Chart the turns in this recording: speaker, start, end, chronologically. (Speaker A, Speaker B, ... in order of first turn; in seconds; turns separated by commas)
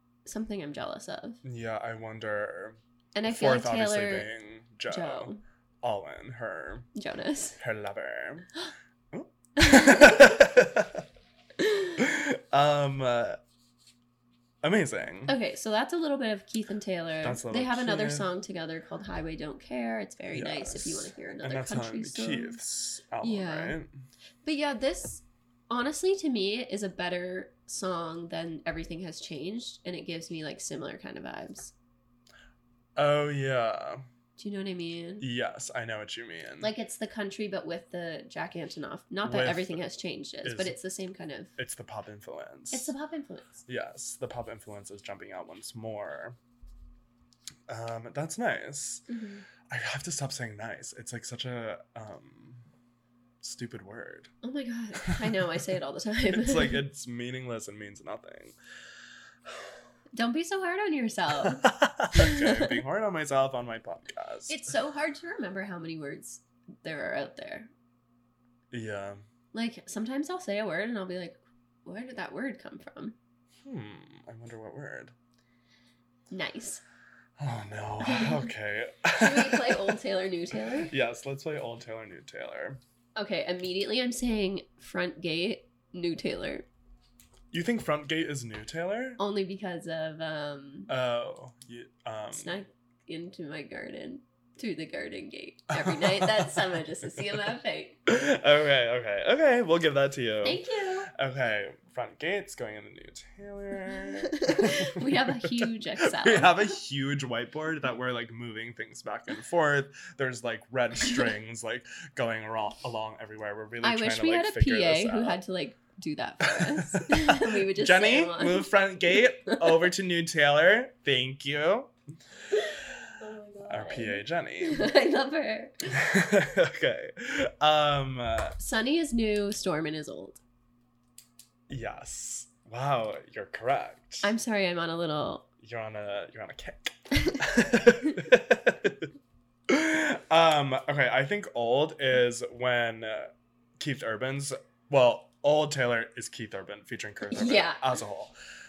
Speaker A: 0.3-1.4, Speaker B: 1.4-5.3, Speaker A: 3.1-4.3, Speaker A: 4.9-5.4, Speaker B: 5.8-6.9, Speaker A: 7.0-7.6, Speaker B: 7.6-8.5, Speaker B: 9.1-11.1, Speaker A: 9.6-10.4, Speaker A: 11.6-12.0, Speaker B: 12.0-13.4, Speaker B: 14.6-15.4, Speaker A: 15.3-22.6, Speaker B: 17.2-18.3, Speaker B: 20.3-24.0, Speaker A: 23.2-23.8, Speaker A: 24.4-31.7, Speaker B: 33.0-34.0, Speaker A: 34.4-35.3, Speaker B: 35.2-36.7, Speaker A: 36.6-41.5, Speaker B: 39.2-39.8, Speaker B: 40.4-40.8, Speaker B: 41.6-42.9, Speaker A: 42.7-43.6, Speaker B: 43.7-46.4, Speaker B: 47.7-49.0, Speaker A: 49.1-49.5, Speaker B: 49.7-52.6, Speaker B: 53.4-54.3, Speaker A: 54.4-56.8, Speaker B: 55.0-55.4, Speaker B: 56.3-58.6, Speaker A: 60.1-62.8, Speaker B: 61.4-64.7, Speaker A: 64.5-67.7, Speaker B: 68.7-69.2, Speaker A: 69.5-73.2, Speaker B: 73.6-75.1, Speaker A: 76.3-76.8, Speaker B: 77.4-80.0, Speaker A: 78.0-78.5, Speaker A: 79.2-80.9, Speaker B: 80.7-82.8, Speaker A: 83.2-86.7, Speaker B: 87.5-89.2, Speaker A: 89.2-90.9, Speaker B: 90.9-92.6, Speaker A: 92.3-98.0, Speaker B: 95.7-97.4, Speaker B: 98.1-115.4, Speaker A: 100.4-101.1, Speaker A: 104.3-106.8, Speaker A: 113.8-118.7, Speaker B: 116.4-121.9, Speaker A: 119.4-119.9, Speaker A: 122.5-125.9, Speaker B: 123.7-124.9, Speaker B: 125.9-128.6, Speaker A: 128.6-130.4, Speaker B: 131.7-134.3, Speaker A: 134.2-135.5, Speaker B: 135.6-139.1, Speaker A: 137.2-137.4, Speaker B: 139.7-148.3, Speaker A: 147.2-148.0